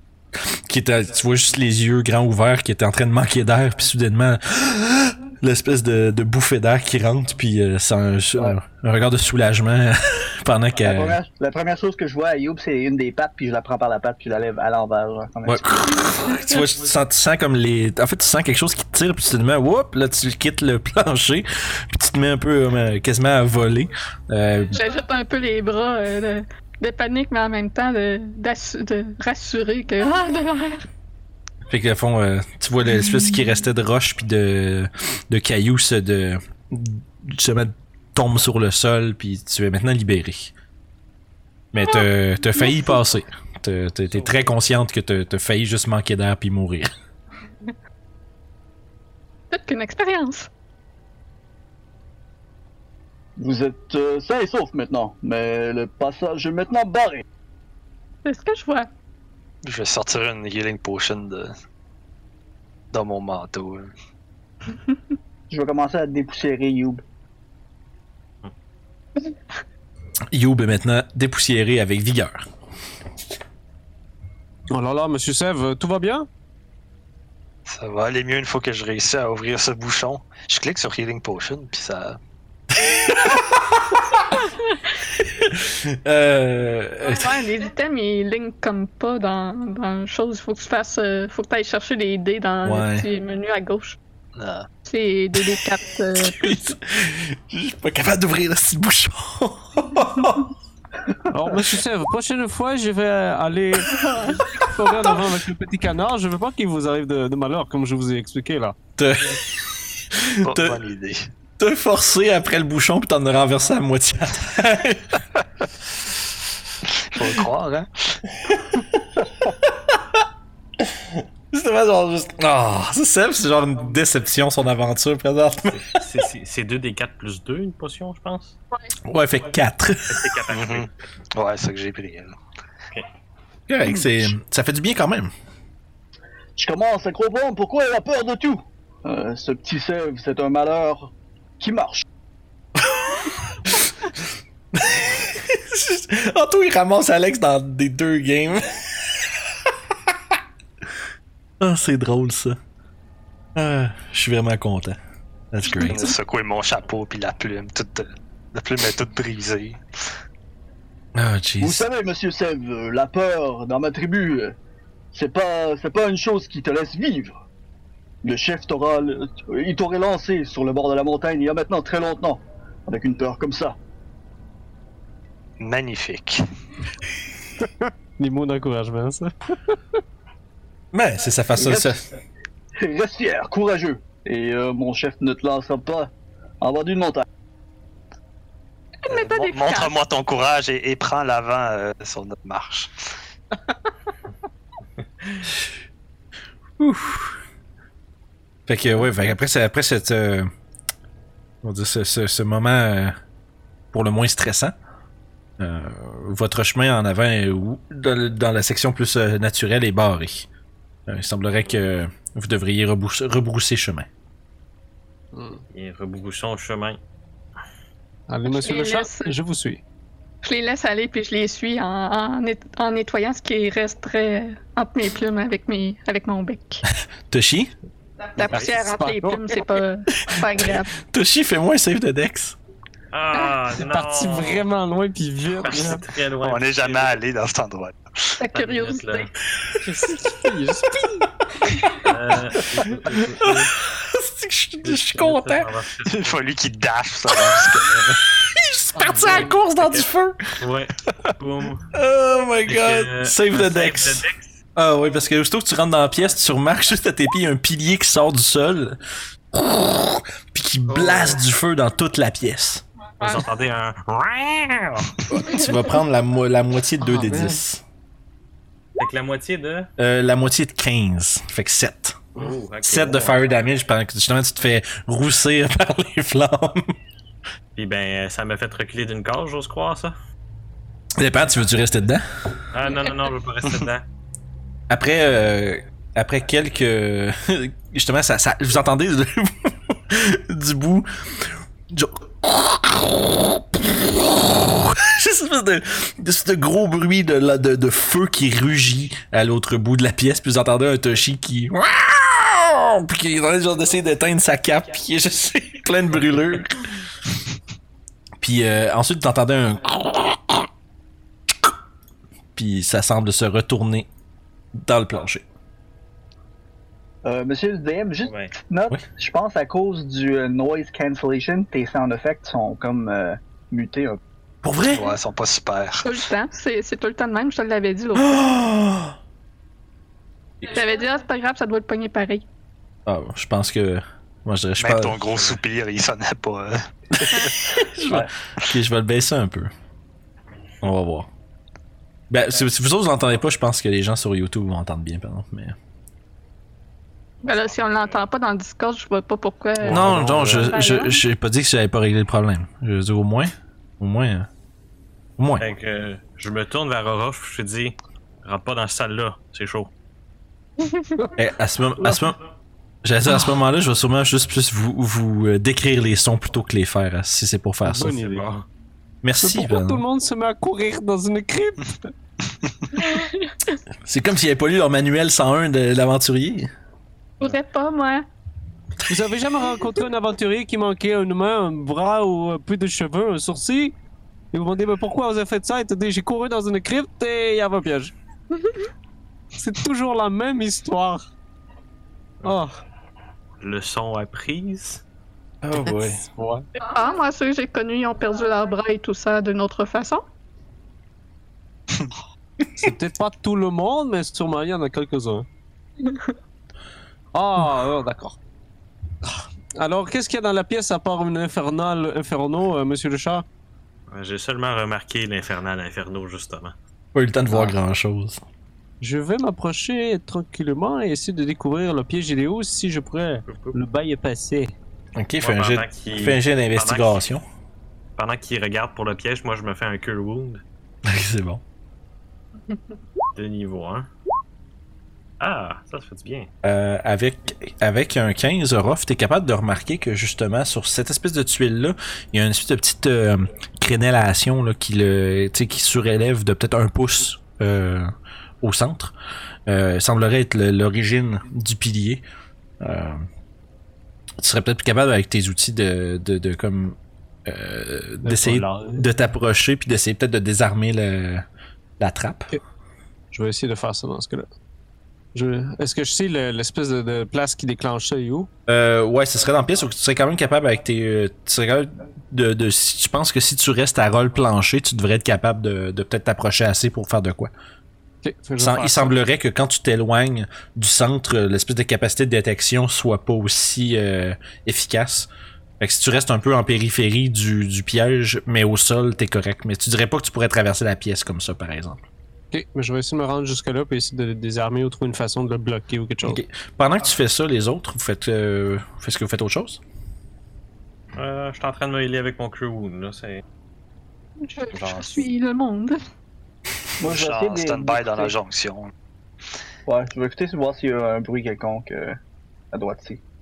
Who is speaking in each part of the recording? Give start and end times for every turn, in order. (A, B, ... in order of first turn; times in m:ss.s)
0:00.4-0:11.2 A
0:10.8-0:15.6 B
0:15.4-0:24.8 A
0:24.7-0:30.8 C
0:31.7-0:40.5 A
0:41.7-0:46.9 A
0:49.5-0:50.5 C
0:53.4-0:57.2 B
0:58.2-0:58.9 C
0:59.6-1:01.5 D
1:02.9-1:03.9 D
1:05.5-1:07.0 B
1:10.3-1:12.4 A
1:14.7-1:16.3 E
1:17.6-1:22.2 D
1:22.8-1:24.0 A
1:24.3-1:24.6 C
1:25.3-1:27.3 A
1:27.0-1:34.0 C
1:32.6-1:33.1 A
1:34.4-1:34.7 D
1:34.8-1:36.8 C
1:36.1-1:40.5 A
1:41.3-1:48.8 E
1:49.0-1:50.8 A
1:50.4-1:51.3 D
1:51.6-1:55.2 A
1:56.9-1:58.2 D
2:01.5-2:06.0 A
2:05.7-2:08.6 F
2:09.0-2:10.3 A
2:10.1-2:10.9 F
2:10.5-2:12.4 D
2:13.7-2:15.3 A
2:13.8-2:14.3 B
2:16.6-2:22.0 B
2:22.8-2:23.8 A
2:24.7-2:30.1 A
2:31.6-2:32.6 A
2:33.5-2:35.0 A
2:35.5-2:36.0 A
2:35.8-2:39.8 D
2:41.1-2:41.9 A
2:41.6-2:44.6 B
2:45.1-2:47.3 B
2:48.2-2:53.8 B
2:55.6-2:56.4 D
2:57.6-2:59.7 E
3:00.9-3:02.0 A
3:01.6-3:01.9 B
3:02.8-3:07.2 B
3:09.0-3:09.9 C
3:09.1-3:12.9 D
3:16.8-3:17.4 A
3:18.7-3:20.5 A
3:21.6-3:23.2 A
3:23.9-3:24.7 A
3:25.6-3:30.5 A
3:31.1-3:34.1 A
3:35.3-3:35.6 E
3:35.7-3:37.0 F
3:38.3-3:39.8 E
3:38.5-3:39.3 C
3:40.4-3:46.8 C
3:47.3-3:47.7 A
3:48.4-3:50.9 C
3:48.4-3:48.8 F
3:48.4-3:49.7 E
3:50.2-3:52.6 A
3:53.1-3:54.6 F
3:53.4-3:56.1 E
3:55.6-3:57.2 F
3:56.4-3:58.3 D
3:58.4-3:59.3 C
3:58.5-3:59.3 F
3:59.8-4:01.3 E
4:02.0-4:03.7 F
4:03.4-4:05.7 A
4:04.8-4:06.4 F
4:06.0-4:08.2 D
4:07.3-4:07.7 A
4:08.5-4:10.5 A
4:09.0-4:09.5 E
4:09.1-4:10.1 F
4:10.6-4:11.9 F
4:11.9-4:19.0 A
4:12.6-4:14.5 F
4:19.5-4:22.8 A
4:20.9-4:21.4 F
4:23.2-4:25.1 F
4:25.3-4:27.8 A
4:27.0-4:27.6 E
4:29.0-4:29.9 F
4:30.0-4:32.2 A
4:32.4-4:33.4 F
4:32.8-4:36.9 A
4:37.8-4:40.1 F
4:41.2-4:42.2 A
4:42.7-4:44.0 F
4:44.9-5:07.0 A
5:08.4-5:10.7 A
5:12.6-5:14.1 A
5:14.7-5:15.4 A
5:17.2-5:24.2 B
5:18.2-5:18.5 F
5:24.6-5:25.1 A
5:24.9-5:26.2 D
5:26.0-5:28.3 C
5:28.2-5:29.1 A
5:30.6-5:32.4 C
5:33.0-5:35.4 A
5:34.8-5:37.5 D
5:37.3-5:39.7 A
5:40.8-5:41.3 A
5:42.3-5:45.7 A
5:47.4-5:51.2 C
5:47.5-5:48.2 F
5:49.9-5:54.5 A
5:49.9-5:50.3 F
5:55.4-5:55.7 A
5:55.6-5:59.9 F
6:00.8-6:01.1 C
6:01.4-6:02.4 A
6:03.0-6:08.2 A
6:07.8-6:08.6 E
6:08.2-6:08.5 F
6:09.2-6:10.0 A
6:09.4-6:12.1 E
6:13.0-6:13.5 C
6:14.0-6:16.7 A
6:17.4-6:18.2 C
6:19.1-6:23.9 E
6:24.5-6:28.1 E
6:29.5-6:31.2 E
6:32.4-6:32.8 E
6:33.6-6:35.0 F
6:35.6-6:36.2 A
6:35.7-6:36.6 E
6:36.8-6:40.2 C
6:42.8-6:45.4 E
6:47.3-6:48.4 E
6:49.2-6:53.4 E
6:54.1-6:56.7 F
6:57.1-6:58.4 A
6:57.5-6:57.7 E
6:59.0-7:04.7 E
7:03.5-7:03.8 F
7:05.2-7:07.4 A
7:05.4-7:07.2 F
7:08.2-7:10.6 F
7:11.0-7:11.6 A
7:13.3-7:14.1 F
7:15.4-7:16.5 F
7:16.6-7:28.1 A
7:28.6-7:29.1 A
7:29.7-7:32.2 A
7:32.8-7:33.2 A
7:34.4-7:41.4 A
7:38.2-7:39.0 E
7:42.0-7:42.5 A
7:43.3-7:44.5 E
7:45.3-7:48.5 E
7:48.7-7:57.5 A
7:58.2-7:59.2 E
7:58.6-8:05.3 A
8:05.8-8:12.0 A
8:12.5-8:16.4 E
8:16.2-8:19.8 A
8:21.1-8:23.4 F
8:24.4-8:26.0 C
8:27.0-8:28.3 B
8:27.0-8:28.9 D
8:29.8-8:32.2 B
8:32.7-8:33.2 B